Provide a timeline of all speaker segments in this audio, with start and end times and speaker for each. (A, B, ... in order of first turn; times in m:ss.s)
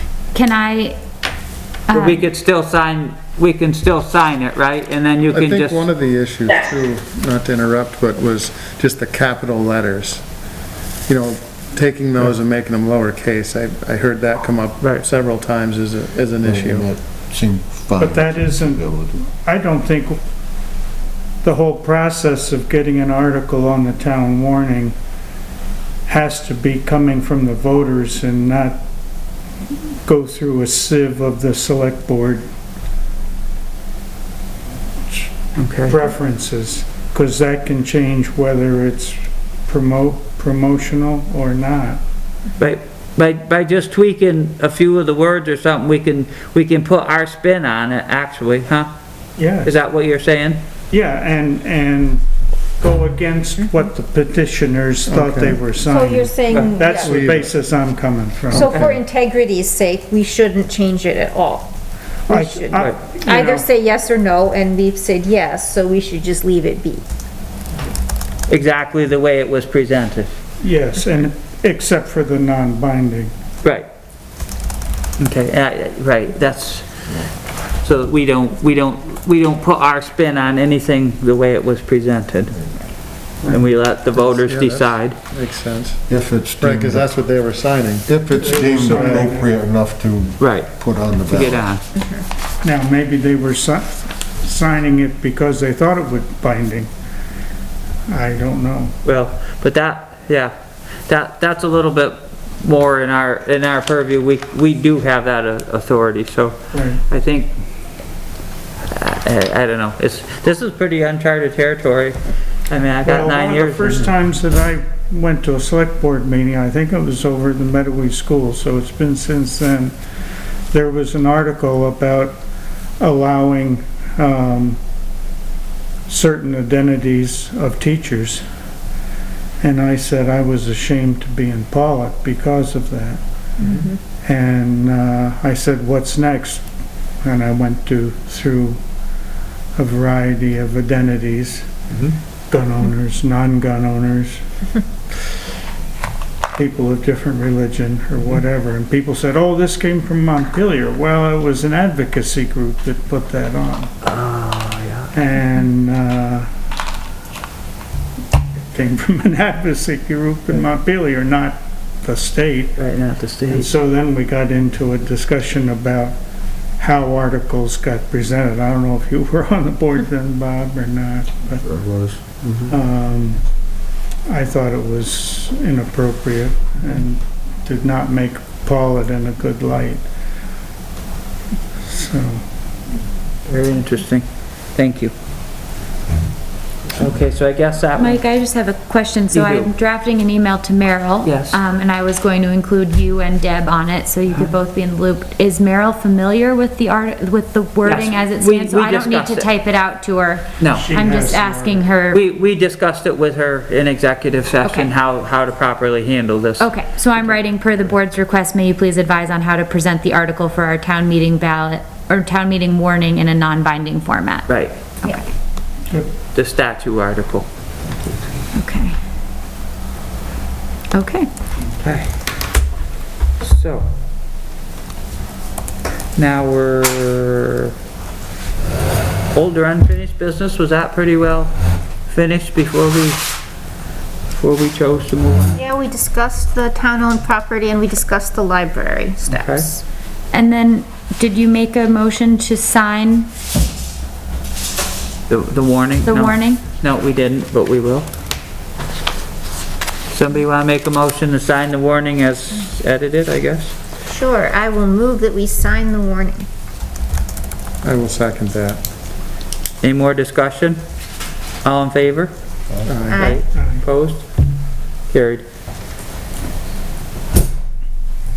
0:00.3-0:01.0 A
0:01.9-0:02.3 A
0:01.9-0:05.9 B
0:05.3-0:10.2 C
0:11.1-0:16.9 C
0:16.4-0:19.2 D
0:18.0-0:20.2 E
0:21.4-0:25.0 E
0:26.1-0:28.8 E
0:30.1-0:32.4 E
0:35.1-0:42.0 E
0:35.6-0:36.0 B
0:42.6-0:48.9 B
0:49.4-0:49.7 E
0:49.6-0:50.6 B
0:50.9-0:52.2 E
0:52.8-0:58.8 E
0:55.1-0:55.6 C
0:55.8-0:57.2 F
0:56.5-0:56.8 B
0:57.0-0:57.5 C
0:58.5-1:01.7 F
1:02.3-1:03.7 E
1:02.3-1:07.0 F
1:02.7-1:03.0 B
1:08.5-1:10.3 B
1:10.6-1:13.3 E
1:15.2-1:16.9 B
1:17.8-1:22.7 B
1:23.4-1:25.2 B
1:24.1-1:28.2 C
1:26.1-1:27.2 D
1:28.1-1:31.7 D
1:28.4-1:29.5 E
1:28.9-1:29.2 C
1:30.4-1:31.8 B
1:32.0-1:32.2 F
1:32.6-1:36.9 E
1:38.1-1:39.0 E
1:39.0-1:40.5 B
1:41.1-1:47.5 B
1:46.7-1:47.0 E
1:48.9-1:52.2 B
1:52.7-1:54.1 B
1:53.0-2:00.0 E
2:00.7-2:02.4 E
2:03.0-2:04.8 E
2:06.1-2:08.4 E
2:09.6-2:13.2 E
2:13.6-2:14.0 F
2:13.6-2:13.9 B
2:14.2-2:16.6 E
2:17.2-2:18.8 E
2:19.8-2:21.7 E
2:21.9-2:22.2 B
2:22.5-2:24.4 E
2:26.6-2:33.9 E
2:34.0-2:35.1 B
2:35.1-2:36.5 E
2:38.7-2:42.8 E
2:42.8-2:43.7 B
2:43.5-2:46.2 E
2:46.8-2:51.6 E
2:51.6-2:52.7 D
2:52.7-2:53.4 E
2:54.3-3:00.0 E
3:01.9-3:02.4 E
3:03.5-3:05.1 B
3:06.9-3:08.2 B
3:08.0-3:22.2 A
3:09.3-3:09.7 B
3:11.2-3:11.6 B
3:17.8-3:19.5 B
3:20.6-3:20.9 B
3:20.7-3:21.9 E
3:22.1-3:27.3 B
3:24.6-3:24.9 A
3:26.6-3:34.5 A
3:34.5-3:34.8 B
3:35.9-3:36.1 E
3:36.3-3:37.5 B
3:38.5-3:39.0 A
3:40.9-3:41.3 A
3:41.8-3:42.1 B
3:43.4-3:43.9 B
3:46.2-3:47.7 B
3:49.3-3:53.2 B
3:54.3-3:55.6 B
3:55.6-3:59.8 F
3:59.3-3:59.7 B
4:00.3-4:03.3 A
4:05.3-4:08.1 B
4:06.0-4:06.6 A
4:10.1-4:13.7 B
4:14.0-4:16.5 F
4:17.8-4:18.8 C
4:19.8-4:20.8 B
4:21.6-4:22.3 B
4:22.7-4:23.1 D
4:22.9-4:23.3 C
4:23.1-4:23.4 F
4:23.1-4:24.2 B
4:23.5-4:23.8 E
4:25.1-4:25.4 B